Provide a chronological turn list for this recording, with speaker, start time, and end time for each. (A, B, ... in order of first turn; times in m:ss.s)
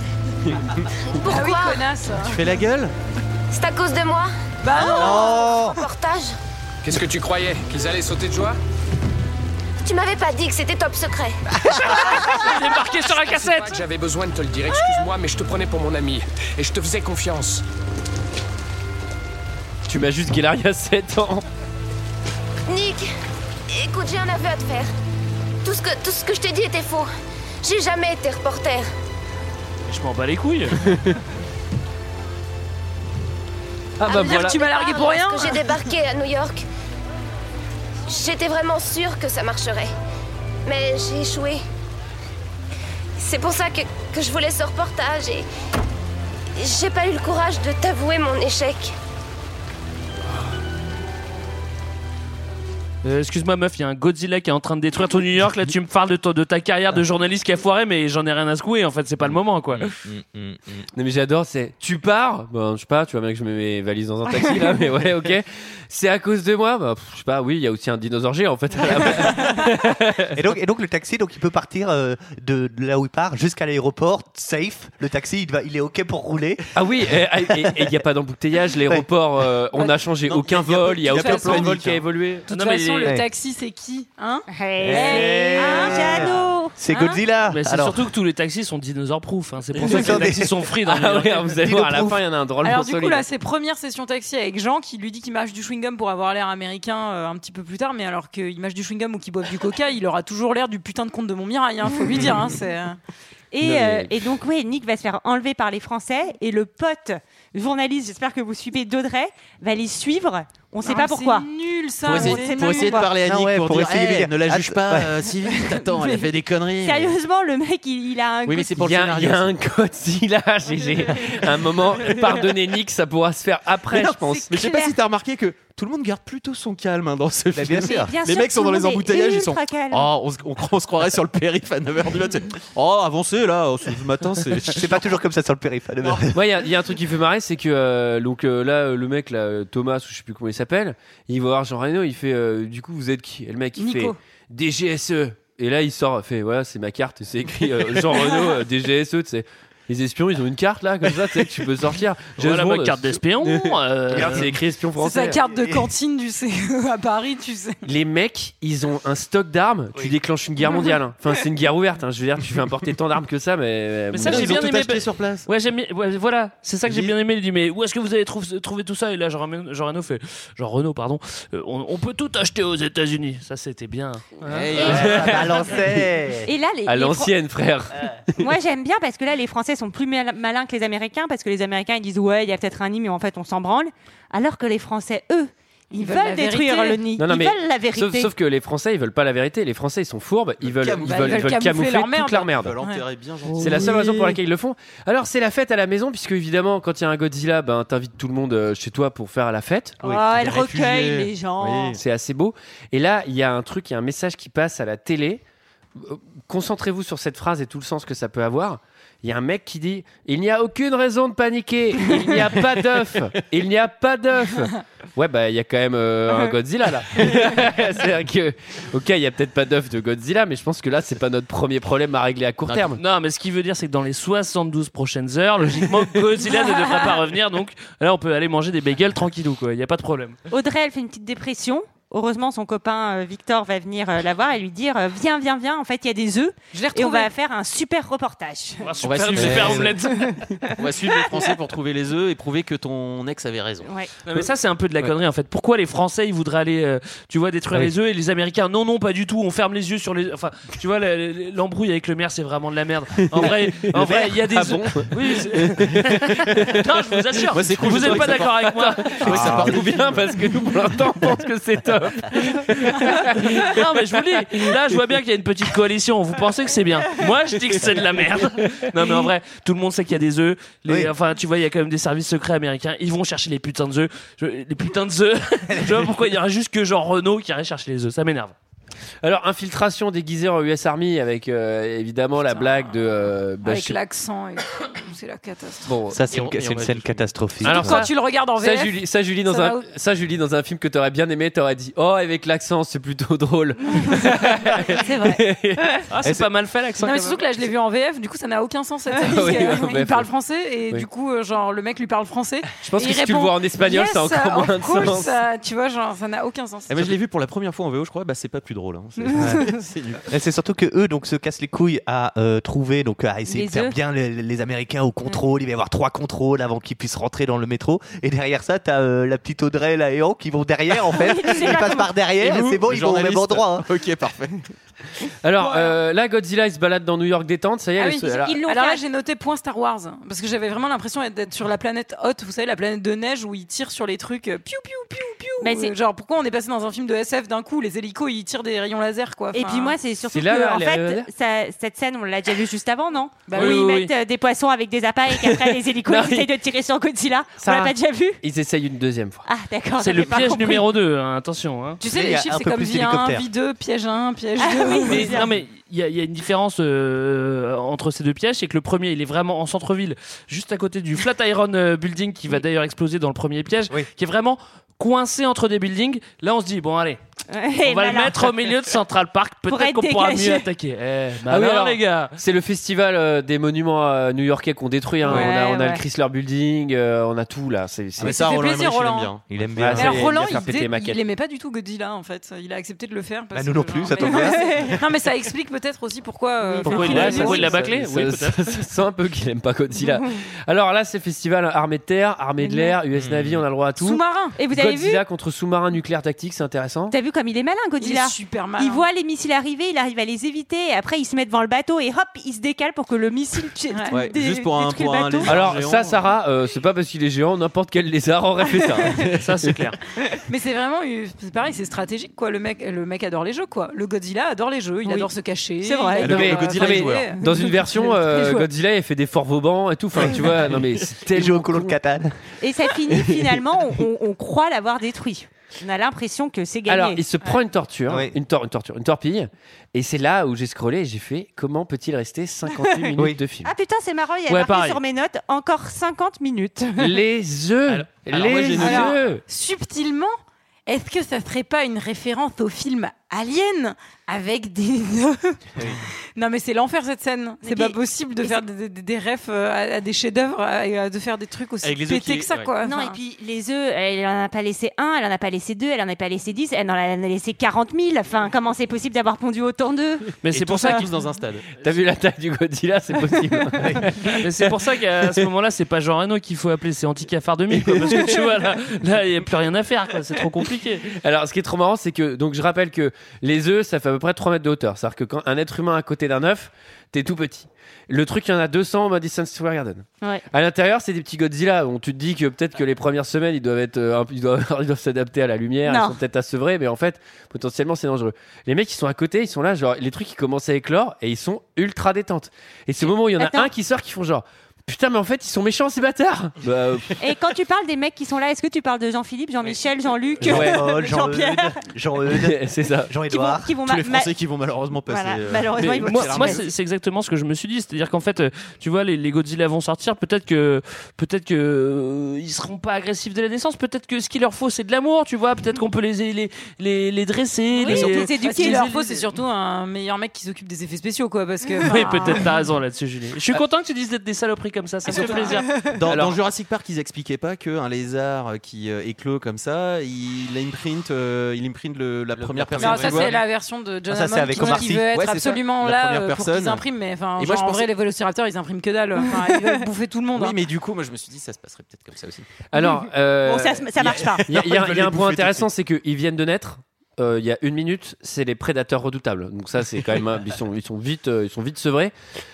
0:01.1-0:01.8 A
0:01.2-0:02.5 B
0:02.2-0:02.9 C
0:03.5-0:06.4 A
0:04.6-0:05.7 B
0:04.8-0:05.8 D
0:06.8-0:08.6 E
0:09.8-0:11.4 A
0:11.9-0:13.8 F
0:13.1-0:17.6 E
0:19.9-0:21.4 G
0:22.7-0:23.1 A
0:23.7-0:24.9 A
0:25.6-0:27.1 A
0:27.6-0:28.9 A
0:29.9-0:30.8 F
0:30.9-0:31.2 G
0:34.0-0:34.6 G
0:34.1-0:36.6 A
0:34.1-0:35.7 B
0:38.1-0:39.9 A
0:40.7-0:41.6 A
0:43.2-0:45.5 A
0:46.6-0:48.9 A
0:53.0-1:00.0 F
1:00.1-1:00.6 D
1:01.0-1:10.4 G
1:10.3-1:16.7 D
1:16.7-1:23.0 G
1:17.5-1:17.9 D
1:20.2-1:22.0 C
1:21.1-1:21.8 B
1:22.5-1:26.2 B
1:24.5-1:26.8 H
1:24.8-1:28.0 D
1:26.9-1:27.2 B
1:27.5-1:31.6 F
1:29.8-1:30.6 D
1:30.9-1:33.2 G
1:31.6-1:32.2 D
1:32.6-1:43.0 B
1:43.5-1:51.5 H
1:43.6-1:44.1 G
1:50.8-1:53.1 B
1:52.1-1:53.1 H
1:52.1-1:57.2 C
1:53.2-1:55.2 D
1:56.8-1:58.9 H
1:58.4-1:59.5 C
1:58.8-2:04.5 G
2:04.5-2:05.0 H
2:04.5-2:15.0 C
2:07.5-2:08.1 D
2:07.8-2:10.1 H
2:14.6-2:16.4 D
2:16.3-2:35.4 G
2:23.8-2:24.2 B
2:32.4-2:34.5 F
2:35.0-2:37.8 B
2:35.5-2:35.8 D
2:37.8-2:44.7 G
2:44.1-2:54.9 F
2:44.2-2:45.5 C
2:46.9-2:47.1 C
2:54.4-2:55.8 C
2:54.8-2:56.5 D
2:54.9-2:55.5 G
2:56.4-2:57.3 H
2:56.9-2:58.4 G
2:58.4-3:08.3 H
3:05.9-3:07.1 B
3:07.2-3:12.7 G
3:10.6-3:11.6 C
3:11.0-3:13.0 B
3:12.5-3:14.4 C
3:13.6-3:20.0 G
3:20.0-3:22.0 H
3:20.0-3:22.0 C
3:22.0-3:25.4 G
3:26.0-3:43.0 G
3:43.0-3:50.4 F
3:50.5-3:58.9 H
3:56.7-3:57.3 B
3:58.8-4:00.5 F
3:59.0-4:00.0 C
3:59.4-3:59.7 D
4:00.7-4:03.9 C
4:03.8-4:04.1 H
4:04.3-4:19.6 F
4:13.4-4:15.1 G
4:15.6-4:16.0 C
4:15.9-4:24.6 G
4:17.5-4:20.4 C
4:23.0-4:38.5 F
4:30.9-4:31.1 D
4:39.2-4:44.0 G
4:42.5-4:43.0 B
4:43.6-4:45.9 B
4:45.8-4:46.2 G
4:46.1-4:48.0 D
4:46.3-4:47.3 C
4:47.6-4:56.0 G
4:47.7-4:49.9 B
4:54.9-4:55.4 B
4:56.1-4:57.4 F
4:57.0-5:07.1 B
4:59.2-5:00.3 G
5:02.8-5:05.3 G
5:06.9-5:10.3 C
5:09.4-5:09.7 D
5:10.3-5:23.9 D
5:13.5-5:14.0 H
5:21.1-5:22.1 H
5:22.4-5:24.7 C
5:25.4-5:28.6 G
5:25.6-5:26.0 B
5:28.0-5:40.0 B
5:28.4-5:29.0 H
5:35.6-5:36.0 H
5:39.5-5:48.4 H
5:40.3-5:41.3 G
5:43.5-5:43.9 B
5:43.5-5:44.1 G
5:45.4-5:46.5 G
5:47.6-5:49.4 G
5:49.5-5:50.9 H
5:50.0-5:52.0 F
5:52.0-5:55.4 B
5:52.0-5:53.5 D
5:54.6-5:55.5 H
5:55.1-6:07.2 F
6:07.5-6:08.5 H
6:07.8-6:12.4 F
6:09.7-6:10.7 H
6:11.5-6:18.4 G
6:15.2-6:16.0 H
6:18.2-6:20.3 C
6:18.2-6:19.4 B
6:19.5-6:20.2 D
6:19.8-6:21.2 G
6:20.0-6:27.7 B
6:23.5-6:25.0 D
6:24.2-6:24.9 H
6:26.8-6:37.1 G
6:26.8-6:28.8 F
6:26.8-6:27.5 H
6:32.6-6:32.9 H
6:33.2-6:33.6 D
6:34.0-6:34.6 B
6:34.6-6:35.2 H
6:37.1-6:45.6 H
6:38.0-6:39.0 B
6:43.9-6:44.2 B
6:44.1-6:46.2 C
6:45.4-6:49.8 G
6:49.4-6:50.0 F
6:50.5-6:58.1 B
6:55.0-6:57.0 H
6:56.2-6:57.3 C
6:56.2-7:02.0 G
6:57.7-6:58.7 H
7:00.2-7:01.0 C
7:01.3-7:02.4 D
7:02.6-7:07.2 H
7:06.9-7:13.7 G
7:08.1-7:08.4 D
7:13.6-7:17.2 H
7:14.5-7:15.0 F
7:17.0-7:19.4 G
7:17.9-7:19.4 C
7:18.8-7:20.3 B
7:20.9-7:25.6 B
7:26.4-7:33.2 B
7:27.6-7:28.6 H
7:31.8-7:32.7 C
7:32.8-7:41.0 H
7:40.4-7:41.1 F
7:40.5-7:41.7 C
7:41.8-7:44.7 G
7:43.8-7:44.1 D
7:44.4-7:51.1 F
7:51.1-8:17.2 G
8:05.8-8:06.2 H
8:13.0-8:13.7 H
8:17.2-8:21.8 H
8:20.4-8:20.9 G
8:20.4-8:23.8 D
8:22.3-8:23.1 G
8:23.3-8:24.3 H
8:23.8-8:26.7 C
8:25.1-8:26.6 H
8:26.0-8:38.8 F
8:37.8-8:39.3 H
8:37.9-8:42.5 B
8:37.9-8:38.2 C
8:41.8-8:45.7 F
8:45.1-8:53.4 C
8:45.1-8:46.0 B
8:46.1-8:46.4 G
8:52.4-8:53.4 G
8:52.8-9:00.6 B
8:54.1-8:55.1 D
8:54.6-8:56.8 C
8:57.4-8:57.9 C
8:59.3-8:59.7 H
9:00.3-9:02.5 C
9:02.7-9:03.9 G
9:02.7-9:04.5 H
9:04.0-9:05.7 C
9:04.4-9:12.1 G